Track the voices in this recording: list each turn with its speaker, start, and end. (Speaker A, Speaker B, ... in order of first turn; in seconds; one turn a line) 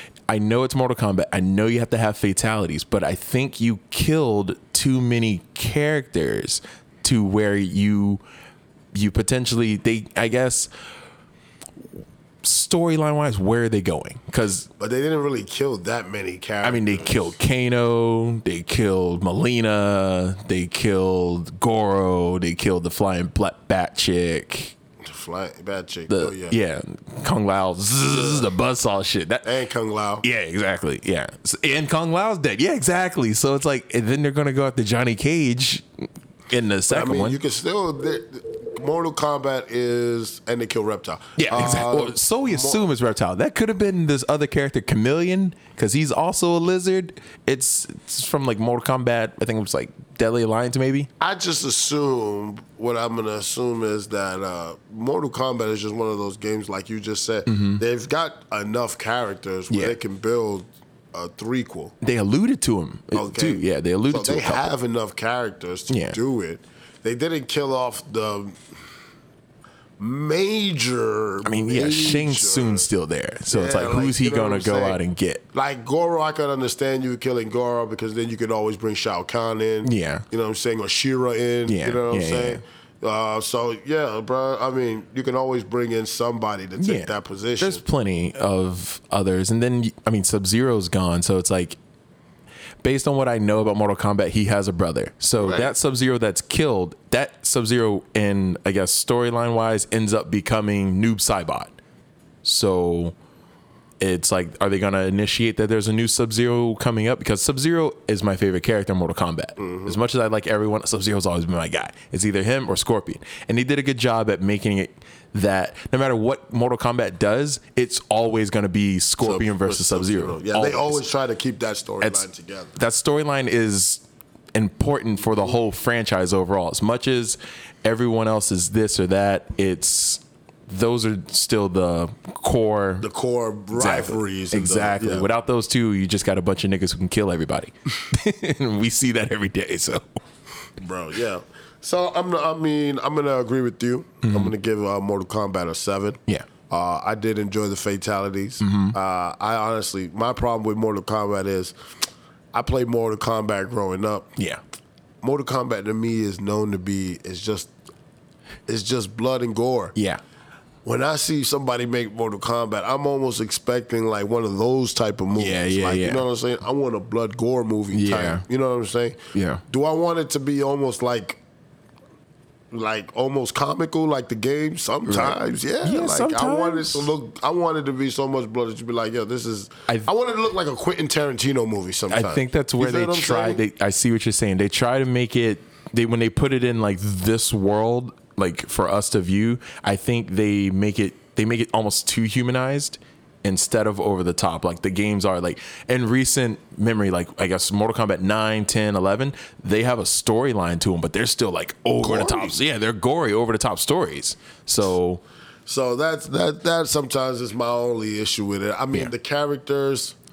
Speaker A: 0.3-8.2
Speaker A: 8.9-10.7
Speaker A: 12.4-14.7
Speaker B: 14.8-17.3
Speaker A: 16.6-24.8
Speaker B: 25.0-26.5
Speaker A: 26.1-29.5
Speaker B: 28.1-28.4
Speaker B: 29.4-30.2
Speaker A: 30.2-37.4
Speaker B: 36.9-42.8
Speaker A: 41.4-51.1
Speaker B: 51.2-61.9
Speaker A: 57.5-57.8
Speaker A: 62.0-64.6
Speaker B: 63.1-68.6
Speaker A: 65.9-66.2
Speaker B: 70.0-72.8
Speaker A: 71.4-75.4
Speaker B: 73.5-75.0
Speaker B: 75.5-87.8
Speaker A: 79.8-80.2
Speaker A: 81.7-82.6
Speaker A: 86.8-91.8
Speaker A: 92.8-101.8
Speaker B: 95.4-95.7
Speaker A: 102.4-103.1
Speaker A: 104.0-121.0
Speaker B: 109.6-110.0
Speaker B: 119.2-122.7
Speaker A: 122.0-133.1
Speaker B: 133.0-135.3
Speaker A: 133.7-140.2
Speaker B: 140.8-151.7
Speaker A: 144.2-144.5
Speaker A: 148.6-148.9
Speaker B: 152.5-154.3
Speaker B: 155.2-157.7
Speaker B: 158.7-159.9
Speaker A: 159.9-160.2
Speaker B: 160.8-171.4
Speaker A: 165.3-166.2
Speaker A: 167.9-168.4
Speaker A: 169.3-169.6
Speaker B: 172.7-183.6
Speaker A: 175.1-177.1
Speaker A: 182.1-205.2
Speaker B: 202.0-202.6
Speaker B: 205.7-210.2